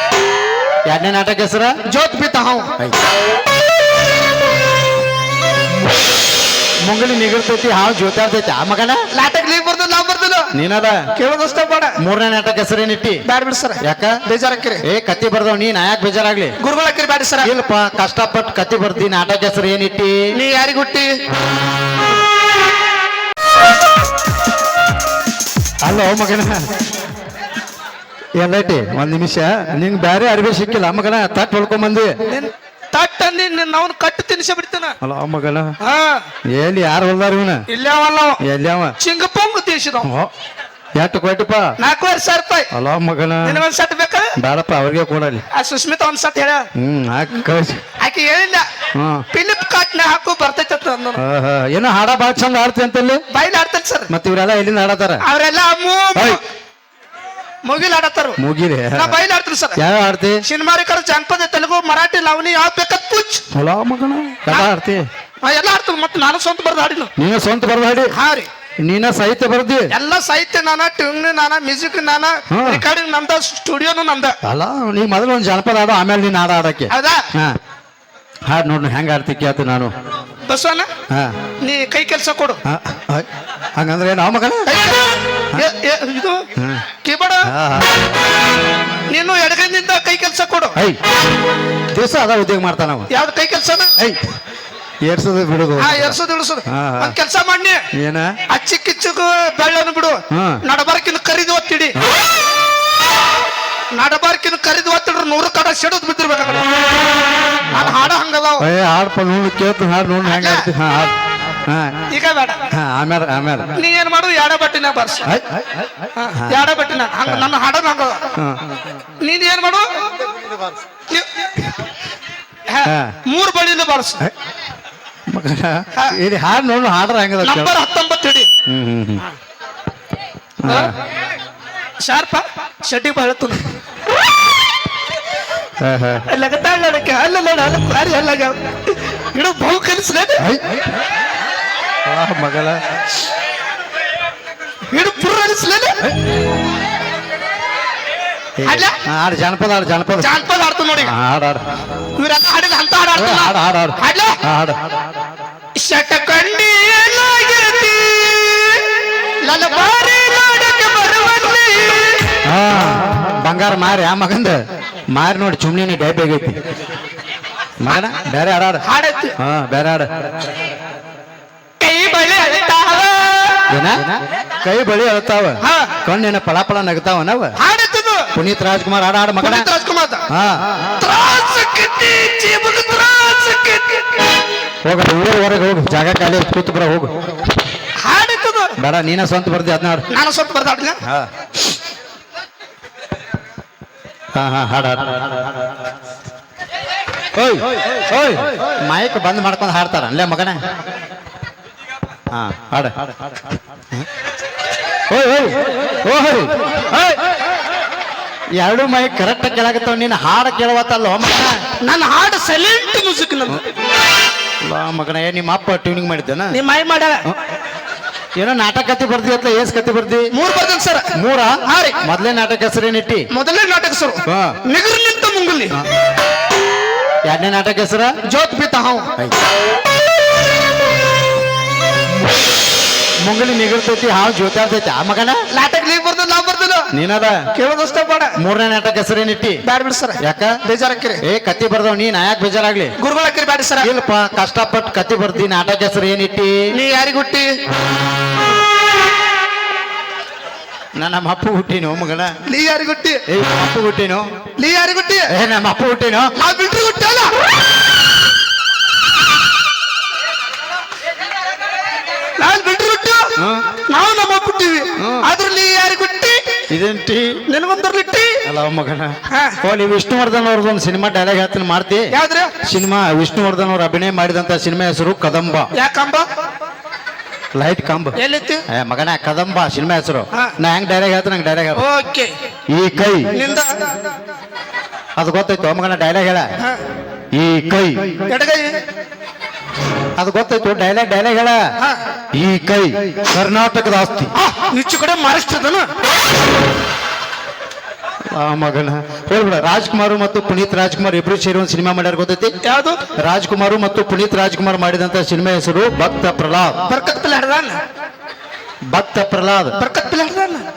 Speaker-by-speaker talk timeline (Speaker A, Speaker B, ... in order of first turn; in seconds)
Speaker A: 0.9-1.8, 6.8-9.0, 10.5-11.1, 12.0-13.2, 13.8-14.2, 14.8-16.6, 17.4-20.2, 25.8-26.7, 28.4-32.2, 35.0-35.8, 36.5-37.6, 38.4-39.0, 40.0-40.3, 41.0-41.8, 42.7-43.6, 44.4-45.4, 46.8-47.8, 49.0-49.2, 51.2-53.2, 54.1-55.2, 56.1-56.4, 58.4-59.2, 59.8-60.4, 63.5-65.1, 67.2-68.1, 68.8-69.9, 72.5-72.8, 74.4-77.6, 78.5-79.9, 81.1-81.4, 82.7-84.8, 86.6-86.8, 87.5-87.9, 91.9-93.1, 94.0-94.2, 95.0-97.2, 97.9-98.4, 100.3-100.6, 107.7-108.0, 108.6-112.0, 112.7-113.8, 115.3-116.7, 118.4-118.8, 122.8-123.2, 125.3-127.7, 128.7-129.3, 130.6-130.9, 135.8-136.3, 140.4-140.8, 142.1-142.8, 148.6-150.4, 151.0-151.6, 153.2-154.8, 162.4-166.6, 167.8-168.8, 169.4-170.3, 173.7-177.6, 178.3-179.7, 180.3-180.8, 184.8-187.2, 188.8-190.1, 194.3-195.4, 197.3-200.6, 202.3-203.1, 205.1-207.2, 208.6-211.6, 214.6-216.6, 218.4-220.3, 221.2-223.3, 224.3-224.6, 227.3-228.1, 233.2-235.4, 236.9-237.4, 238.4-239.6, 240.2-240.6, 241.2-242.9, 243.8-246.6, 251.0-252.4, 253.3-254.2, 255.3-256.3, 263.4-263.7, 265.0-265.3, 266.7-267.4, 268.4-272.1, 272.6-275.7, 277.6-278.2, 278.7-281.8, 282.7-283.3, 285.2-286.5, 287.3-288.2, 290.2-291.6, 292.3-294.3, 298.3-302.6, 303.2-306.8, 308.9-309.8
Speaker B: 1.9-2.7, 9.1-10.5, 11.2-12.0, 13.3-14.8, 16.6-17.5, 20.4-21.1, 32.3-35.0, 35.8-36.3, 37.7-38.4, 39.0-40.1, 41.8-42.7, 43.4-44.3, 45.5-46.7, 48.0-48.7, 49.3-51.2, 53.3-54.1, 55.2-56.4, 57.6-58.4, 59.0-59.8, 60.4-63.4, 65.4-67.1, 68.1-68.5, 69.9-74.4, 76.9-77.3, 80.5-80.9, 81.6-82.6, 84.7-86.5, 87.0-87.5, 89.1-90.8, 93.1-94.0, 95.8-97.8, 98.5-102.0, 103.9-106.7, 107.7-108.7, 110.2-110.7, 112.1-112.7, 113.8-115.3, 116.2-118.3, 119.2-120.0, 121.1-121.7, 122.7-124.3, 127.4-128.5, 130.7-130.9, 132.0-133.7, 136.3-140.5, 144.9-146.1, 148.6-149.0, 150.2-151.1, 152.2-154.4, 155.8-162.4, 168.8-169.3, 171.8-173.7, 175.6-176.0, 177.6-178.3, 179.4-180.2, 180.9-184.4, 188.0-188.8, 190.1-191.0, 211.8-213.7, 216.5-217.2, 220.3-221.1, 221.7-222.0, 223.3-225.8, 228.3-229.1, 235.5-236.9, 237.6-238.4, 239.6-241.2, 243.0-243.9, 246.7-247.5, 252.5-253.2, 254.6-255.3, 256.4-257.4, 262.4-263.3, 263.9-266.4, 267.5-268.4, 269.3-269.6, 272.1-272.5, 275.7-276.3, 278.2-278.6, 281.8-282.3, 283.3-283.8, 288.3-288.8, 294.3-295.9, 302.6-303.0, 306.9-307.8, 309.8-310.7